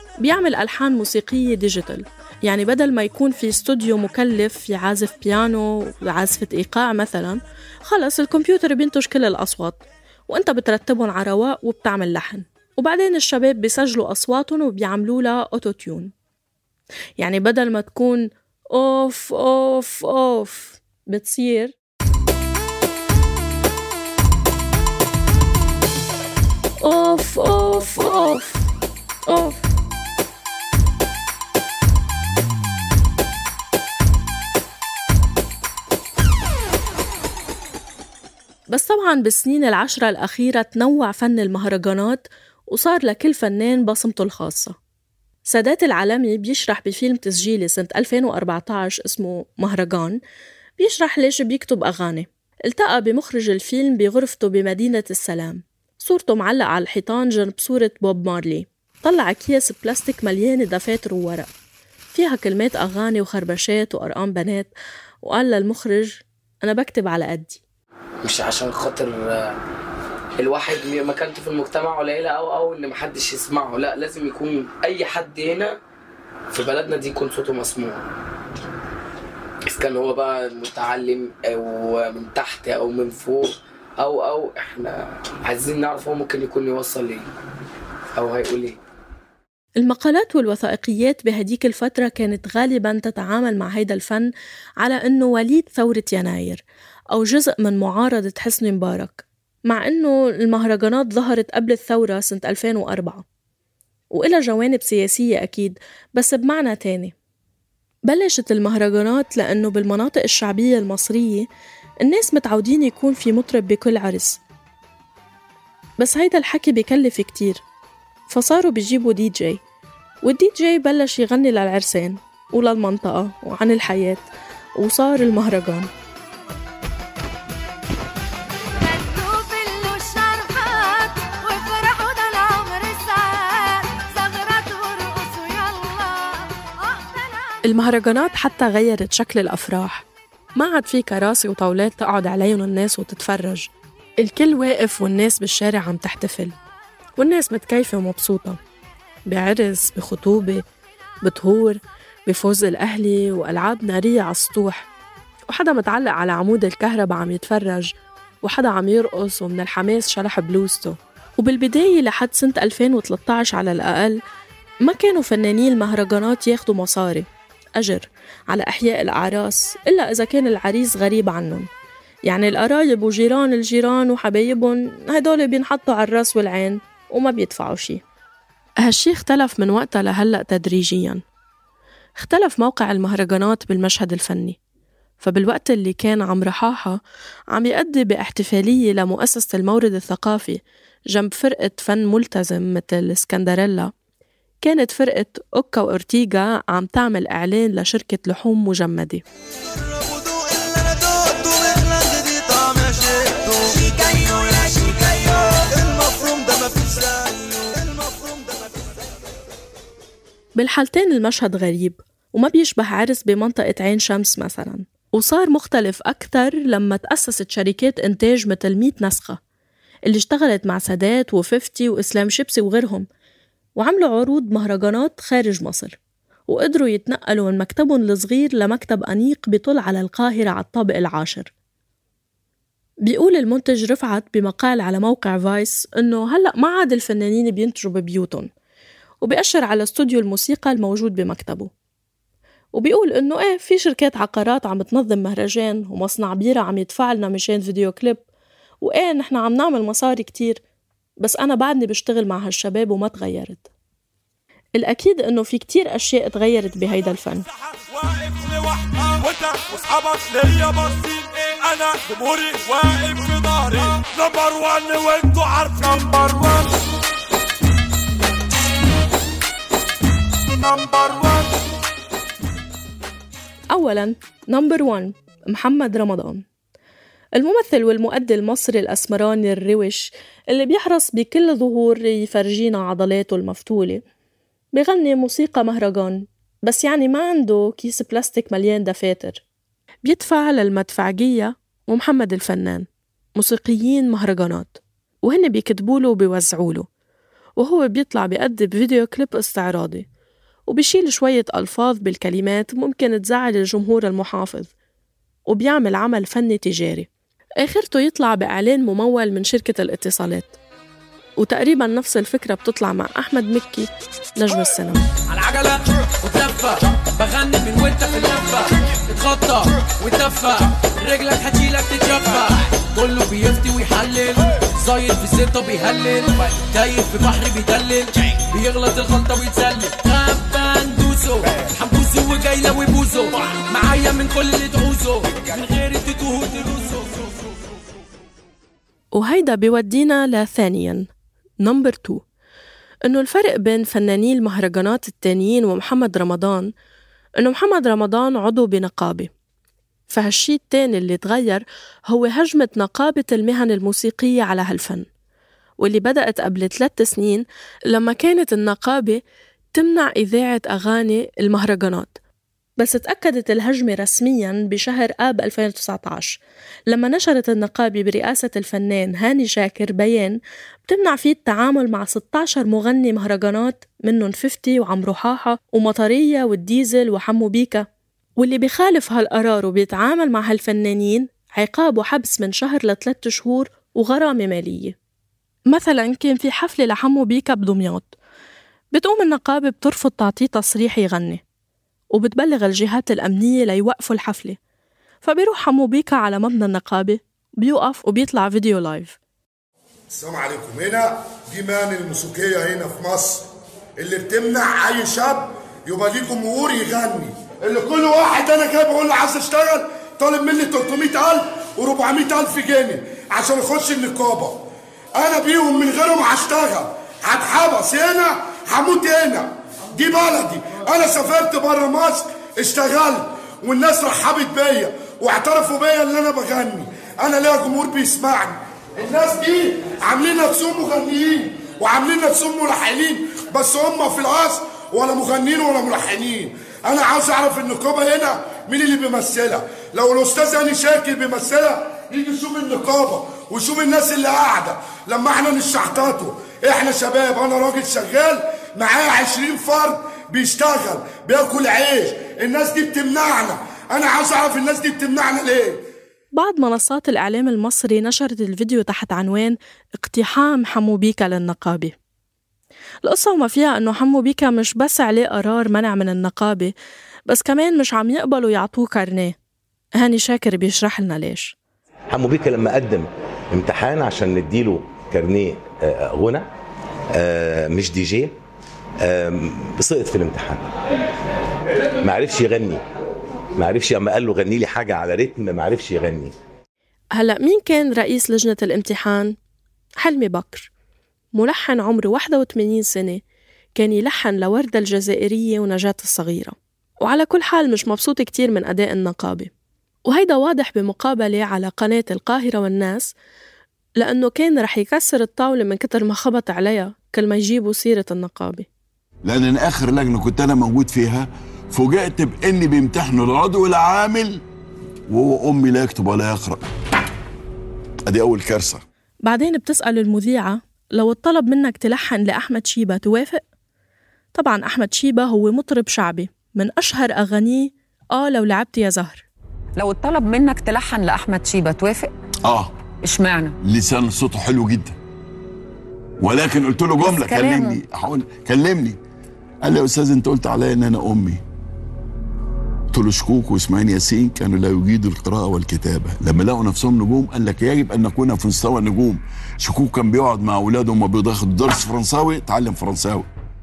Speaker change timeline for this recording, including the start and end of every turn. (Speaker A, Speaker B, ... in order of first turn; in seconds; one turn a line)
Speaker A: 0.2-16.1
Speaker A: 17.2-21.7
Speaker A: 26.8-28.6
Speaker A: 29.3-29.6
Speaker A: 38.7-44.8
Speaker A: 45.5-50.2
Speaker A: 50.8-61.5
Speaker A: 62.1-64.7
Speaker A: 65.2-67.6
Speaker B: 68.2-69.5
Speaker B: 70.4-75.8
Speaker B: 76.5-78.0
Speaker B: 79.7-87.3
Speaker B: 88.1-88.8
Speaker A: 89.8-103.2
Speaker A: 104.1-107.1
Speaker A: 108.1-111.5
Speaker A: 112.0-114.4
Speaker A: 116.0-117.6
Speaker A: 118.3-119.6
Speaker A: 120.2-124.3
Speaker A: 124.8-125.9
Speaker C: 128.8-137.6
Speaker A: 137.7-140.1
Speaker A: 140.6-143.7
Speaker A: 144.2-146.6
Speaker A: 147.2-148.6
Speaker A: 149.3-150.6
Speaker A: 151.2-154.9
Speaker A: 155.5-157.9
Speaker A: 158.4-164.2
Speaker A: 164.8-171.7
Speaker A: 172.3-178.0
Speaker A: 178.8-181.2
Speaker A: 182.2-184.6
Speaker A: 185.2-187.0
Speaker A: 187.5-190.6
Speaker A: 191.1-193.9
Speaker A: 194.6-199.2
Speaker A: 210.6-219.4
Speaker A: 220.1-223.1
Speaker A: 223.8-226.0
Speaker A: 226.5-231.5
Speaker A: 233.1-238.5
Speaker A: 239.2-241.7
Speaker A: 242.8-248.2
Speaker A: 248.8-250.6
Speaker A: 251.2-253.7
Speaker A: 254.8-257.4
Speaker D: 259.1-263.6
Speaker D: 264.2-266.0
Speaker A: 273.7-276.4
Speaker A: 277.4-284.0
Speaker A: 284.7-289.4
Speaker A: 290.1-296.9
Speaker A: 297.6-300.1
Speaker A: 300.7-304.7
Speaker A: 305.5-307.1
Speaker A: 307.6-310.6
Speaker A: 311.4-315.1
Speaker C: 315.3-337.3
Speaker A: 339.1-341.1
Speaker A: 341.6-342.2
Speaker A: 343.1-346.7
Speaker A: 347.4-349.3
Speaker A: 350.1-355.1
Speaker A: 355.8-359.2
Speaker A: 359.7-362.2
Speaker A: 362.8-377.9
Speaker A: 378.4-385.0
Speaker A: 385.7-388.1
Speaker A: 388.9-391.4
Speaker A: 392.1-394.6
Speaker A: 395.2-399.2
Speaker E: 400.1-403.5
Speaker E: 404.0-414.6
Speaker E: 415.2-455.8
Speaker A: 456.4-462.0
Speaker A: 463.0-466.7
Speaker A: 467.3-469.4
Speaker A: 470.0-471.6
Speaker F: 472.1-476.5
Speaker F: 477.1-478.3
Speaker F: 479.0-480.6
Speaker F: 482.0-482.8
Speaker F: 483.6-486.3
Speaker A: 487.2-489.3
Speaker A: 490.0-490.7
Speaker A: 491.4-493.2
Speaker A: 493.8-499.5
Speaker A: 500.1-503.1
Speaker A: 504.0-508.7
Speaker G: 509.2-514.4
Speaker G: 515.1-516.6
Speaker G: 518.1-518.8
Speaker A: 519.3-523.4
Speaker A: 524.4-529.2
Speaker H: 529.8-532.1
Speaker G: 532.5-532.8
Speaker H: 533.0-533.6
Speaker G: 533.6-535.0
Speaker G: 536.2-539.0
Speaker H: 537.0-537.8
Speaker G: 539.6-541.4
Speaker G: 542.9-553.3